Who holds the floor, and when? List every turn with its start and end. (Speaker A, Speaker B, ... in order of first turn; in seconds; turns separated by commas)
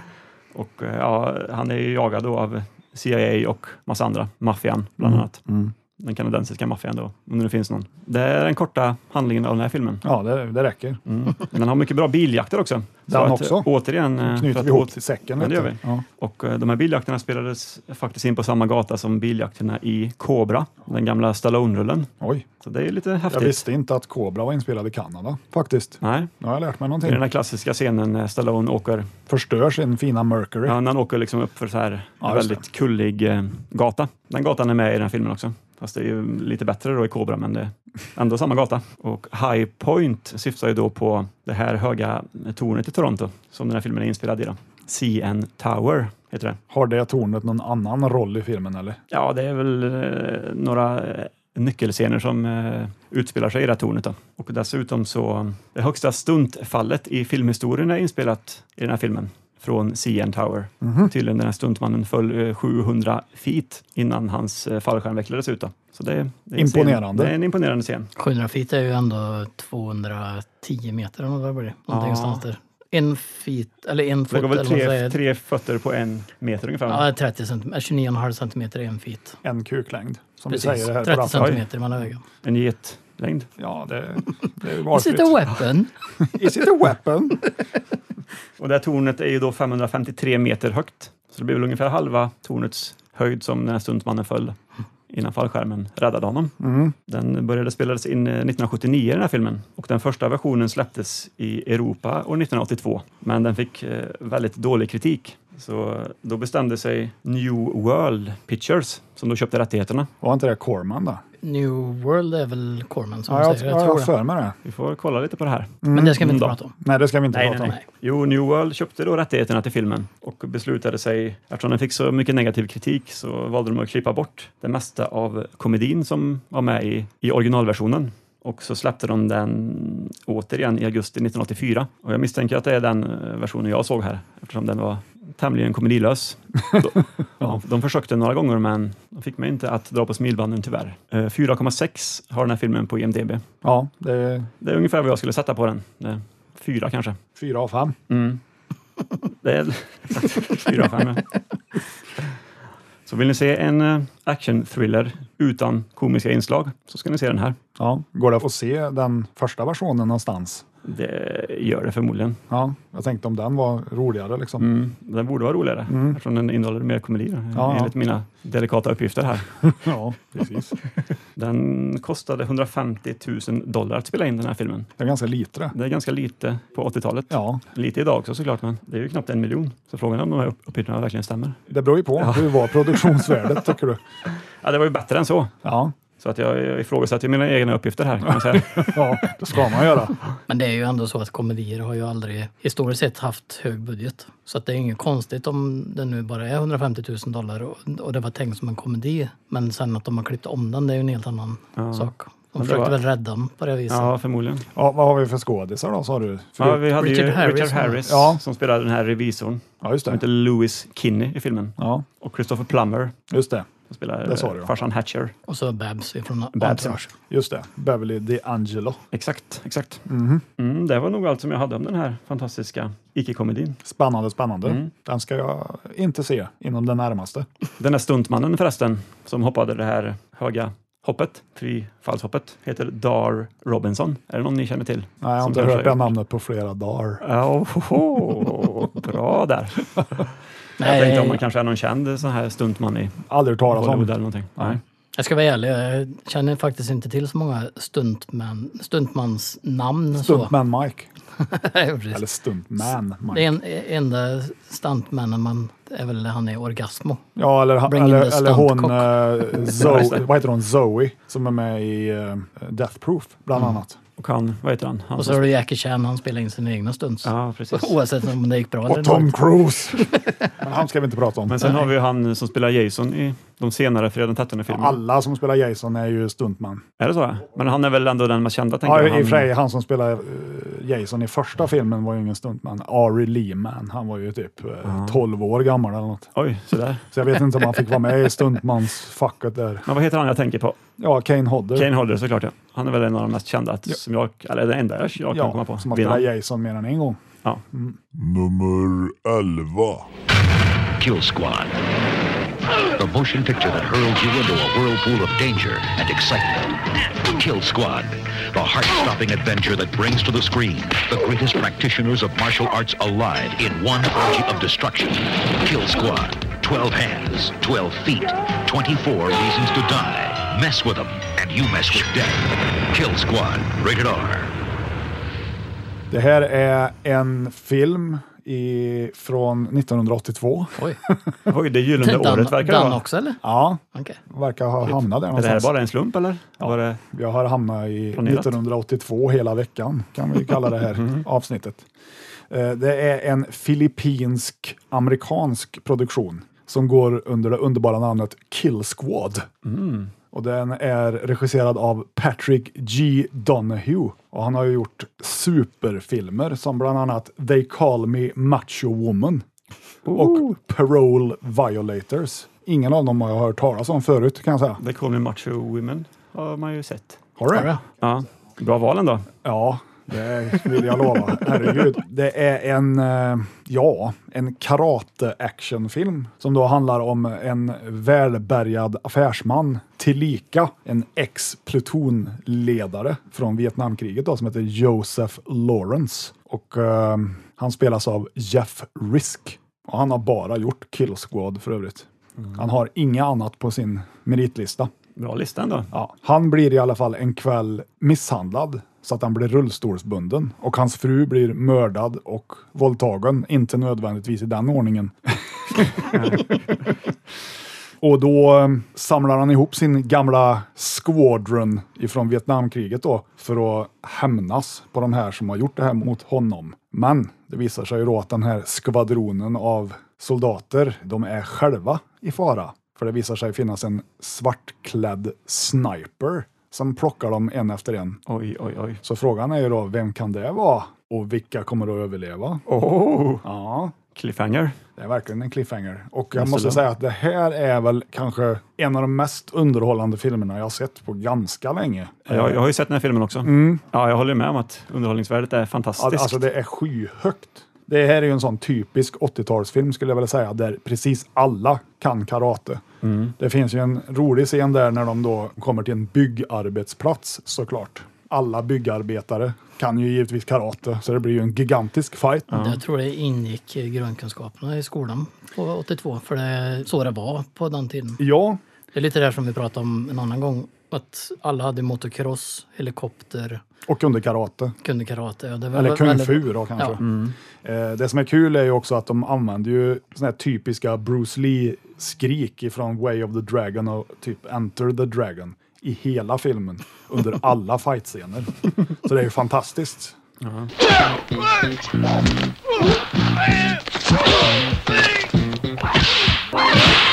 Speaker A: 0.5-5.4, Speaker B: 5.0-5.7, Speaker A: 6.0-10.0, Speaker B: 10.0-11.0, Speaker A: 11.1-22.1, Speaker B: 13.1-13.7, Speaker B: 14.2-16.0, Speaker B: 22.2-22.4, Speaker A: 22.6-23.6, Speaker B: 23.3-27.2, Speaker A: 26.0-26.3, Speaker A: 27.0-29.1, Speaker B: 29.3-30.8, Speaker A: 30.6-46.6, Speaker B: 32.2-32.6, Speaker B: 46.7-49.0, Speaker A: 49.1-68.1, Speaker B: 60.8-61.1, Speaker B: 66.6-67.3, Speaker C: 68.2-75.2, Speaker A: 71.9-72.4, Speaker A: 74.3-77.1, Speaker C: 76.9-79.4, Speaker B: 79.4-81.6, Speaker C: 80.5-82.2, Speaker A: 81.3-81.6, Speaker A: 82.4-83.5, Speaker B: 83.6-85.4, Speaker C: 84.9-85.9, Speaker B: 86.2-87.4, Speaker A: 88.6-94.5, Speaker A: 95.1-96.5, Speaker B: 96.6-96.9, Speaker A: 97.1-110.1, Speaker B: 110.2-111.2, Speaker C: 111.4-114.1, Speaker B: 113.3-114.5, Speaker A: 114.6-116.5, Speaker B: 115.8-117.8, Speaker C: 115.9-116.7, Speaker A: 117.3-143.4, Speaker B: 143.6-144.5, Speaker A: 144.6-147.2, Speaker B: 147.3-147.9, Speaker A: 148.1-148.4, Speaker A: 149.4-151.2, Speaker A: 153.1-157.6, Speaker B: 157.8-160.6, Speaker A: 160.8-162.4, Speaker B: 162.5-164.7, Speaker A: 164.6-169.8, Speaker B: 165.9-166.2, Speaker B: 167.5-167.9, Speaker B: 169.7-170.7, Speaker A: 171.3-174.9, Speaker B: 175.0-175.7, Speaker A: 175.7-181.6, Speaker B: 177.3-177.6, Speaker B: 181.7-184.0, Speaker A: 182.2-183.1, Speaker A: 184.6-185.5, Speaker B: 185.6-185.9, Speaker A: 186.2-189.3, Speaker B: 188.5-190.1, Speaker C: 190.5-204.1, Speaker A: 201.8-203.0, Speaker A: 203.9-204.7, Speaker B: 204.7-206.8, Speaker A: 206.6-213.1, Speaker C: 207.0-208.0, Speaker B: 208.0-208.4, Speaker B: 209.8-210.2, Speaker B: 211.8-212.0, Speaker B: 213.3-213.7, Speaker A: 213.9-215.3, Speaker B: 214.2-214.7, Speaker C: 215.5-217.1, Speaker A: 216.6-217.0, Speaker B: 216.7-219.0, Speaker A: 219.1-220.0, Speaker B: 220.1-220.4, Speaker A: 220.6-223.8, Speaker B: 223.8-227.4, Speaker A: 224.6-224.9, Speaker A: 227.8-236.1, Speaker B: 235.2-237.2, Speaker A: 237.2-240.3, Speaker C: 240.8-241.4, Speaker A: 240.8-244.8, Speaker B: 243.3-244.8, Speaker C: 245.2-250.5, Speaker B: 250.2-251.1, Speaker C: 251.4-252.2, Speaker B: 252.1-253.4, Speaker C: 253.3-257.2, Speaker B: 257.4-264.0, Speaker C: 257.9-259.2, Speaker A: 259.7-260.2, Speaker A: 263.6-265.4, Speaker C: 265.2-269.4, Speaker A: 267.2-268.0, Speaker B: 268.9-270.1, Speaker B: 270.6-271.7, Speaker A: 271.5-275.0, Speaker B: 274.7-276.8, Speaker A: 277.0-279.5, Speaker B: 278.8-286.3, Speaker A: 284.8-285.2, Speaker A: 286.4-287.1, Speaker B: 287.1-289.9, Speaker A: 289.9-290.8, Speaker B: 291.0-291.9, Speaker A: 291.7-296.3, Speaker B: 295.3-298.0, Speaker D: 298.1-300.1, Speaker E: 301.0-301.8, Speaker E: 302.9-324.5, Speaker B: 326.1-331.2, Speaker A: 331.5-333.0, Speaker C: 332.0-333.4, Speaker B: 333.4-335.7, Speaker C: 333.9-334.2, Speaker A: 335.3-337.0, Speaker B: 336.6-341.8, Speaker A: 338.1-338.5, Speaker A: 340.9-341.2, Speaker B: 342.5-349.5, Speaker A: 349.6-350.1, Speaker B: 350.3-359.4, Speaker A: 360.1-360.4, Speaker B: 360.1-364.8, Speaker A: 364.8-367.2, Speaker B: 367.4-367.7, Speaker C: 367.5-367.8, Speaker A: 368.0-369.3, Speaker B: 369.4-394.9, Speaker A: 395.2-395.9, Speaker B: 395.9-406.4, Speaker A: 406.1-406.6, Speaker B: 408.0-428.2, Speaker A: 428.3-429.0, Speaker B: 429.0-432.6, Speaker A: 432.7-433.4, Speaker B: 433.4-433.9, Speaker A: 434.1-434.8, Speaker B: 435.0-442.6, Speaker A: 436.3-436.8, Speaker A: 442.3-446.4, Speaker B: 443.4-443.8, Speaker B: 446.0-452.8, Speaker A: 453.0-453.3, Speaker B: 453.4-462.6, Speaker C: 462.5-468.2, Speaker B: 468.2-468.6, Speaker C: 468.9-473.6, Speaker B: 473.9-474.7, Speaker C: 474.8-477.0, Speaker B: 475.7-490.2, Speaker A: 477.0-477.3, Speaker A: 490.4-490.7